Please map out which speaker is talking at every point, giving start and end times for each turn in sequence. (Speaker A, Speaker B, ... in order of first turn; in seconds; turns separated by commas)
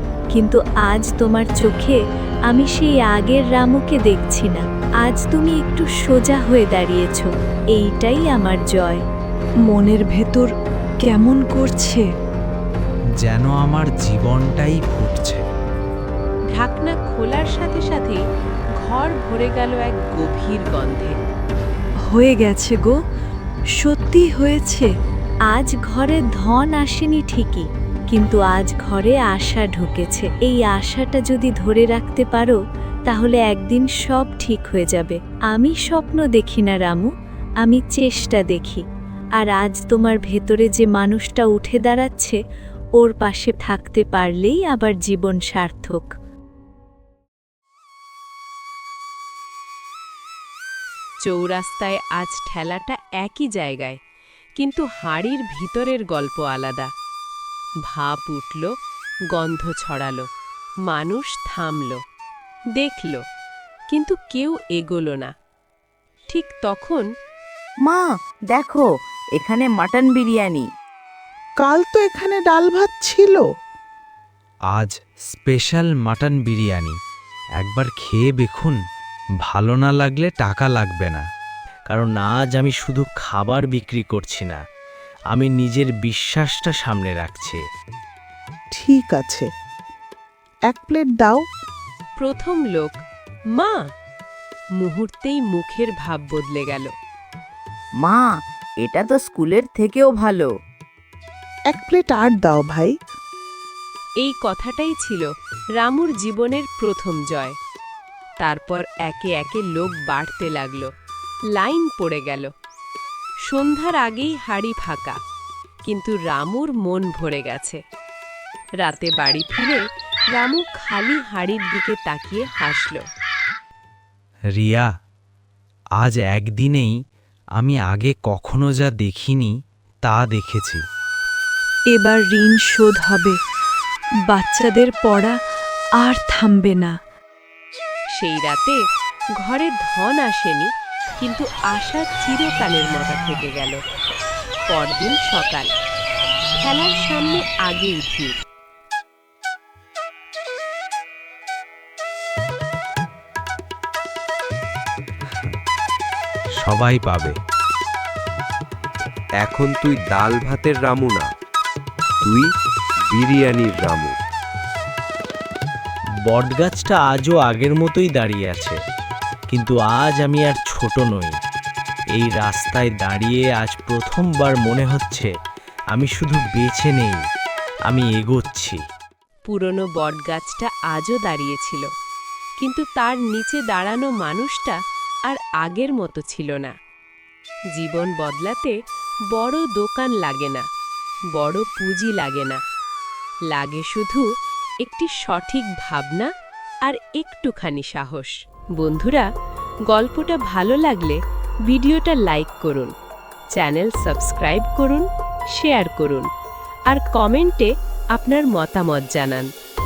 Speaker A: 0.3-9.0, Speaker B: 9.7-10.5, Speaker B: 11.0-12.1, Speaker C: 13.2-15.4, Speaker D: 16.5-18.2, Speaker D: 18.8-21.2, Speaker B: 22.1-23.0, Speaker B: 23.8-24.9, Speaker A: 25.5-37.1, Speaker A: 37.6-38.8, Speaker A: 39.4-42.4, Speaker A: 43.0-46.1, Speaker D: 51.2-54.0, Speaker D: 54.6-56.9, Speaker D: 57.9-58.7, Speaker D: 59.3-60.3, Speaker D: 60.9-62.0, Speaker D: 62.8-63.2, Speaker D: 63.9-65.3, Speaker D: 66.3-67.1, Speaker E: 67.8-68.9, Speaker E: 69.4-70.7, Speaker F: 71.6-73.5, Speaker C: 74.7-77.0, Speaker C: 77.6-78.8, Speaker C: 79.4-81.2, Speaker C: 81.9-84.6, Speaker C: 85.3-87.6, Speaker F: 88.7-89.5, Speaker F: 90.7-91.4, Speaker D: 92.2-93.0, Speaker D: 93.5-93.8, Speaker D: 94.8-96.9, Speaker E: 98.0-100.5, Speaker F: 101.7-102.9, Speaker D: 104.2-107.5, Speaker D: 108.4-110.9, Speaker D: 111.6-112.5, Speaker D: 113.5-115.2, Speaker D: 115.9-117.8, Speaker D: 118.8-119.8, Speaker D: 120.3-123.0, Speaker C: 124.5-124.9, Speaker C: 126.0-127.0, Speaker C: 127.6-129.5, Speaker C: 130.1-130.8, Speaker B: 131.9-133.4, Speaker B: 134.3-135.4, Speaker B: 136.0-136.9, Speaker D: 138.2-138.8, Speaker D: 139.4-140.7, Speaker D: 141.2-143.8, Speaker D: 144.7-145.7, Speaker D: 146.6-148.4, Speaker C: 156.6-157.3, Speaker G: 159.4-161.3, Speaker G: 162.2-162.5, Speaker G: 163.1-164.2, Speaker C: 166.3-168.8, Speaker C: 169.5-171.4, Speaker C: 172.1-175.3, Speaker C: 175.9-177.2, Speaker C: 177.9-178.8, Speaker D: 179.5-181.9, Speaker D: 182.6-184.8, Speaker D: 185.3-186.7, Speaker D: 187.7-188.8, Speaker D: 189.3-190.6, Speaker D: 191.3-192.6, Speaker D: 193.5-194.3, Speaker D: 194.8-196.3, Speaker D: 196.8-199.3, Speaker D: 199.9-202.9, Speaker D: 203.5-206.3, Speaker D: 206.9-209.5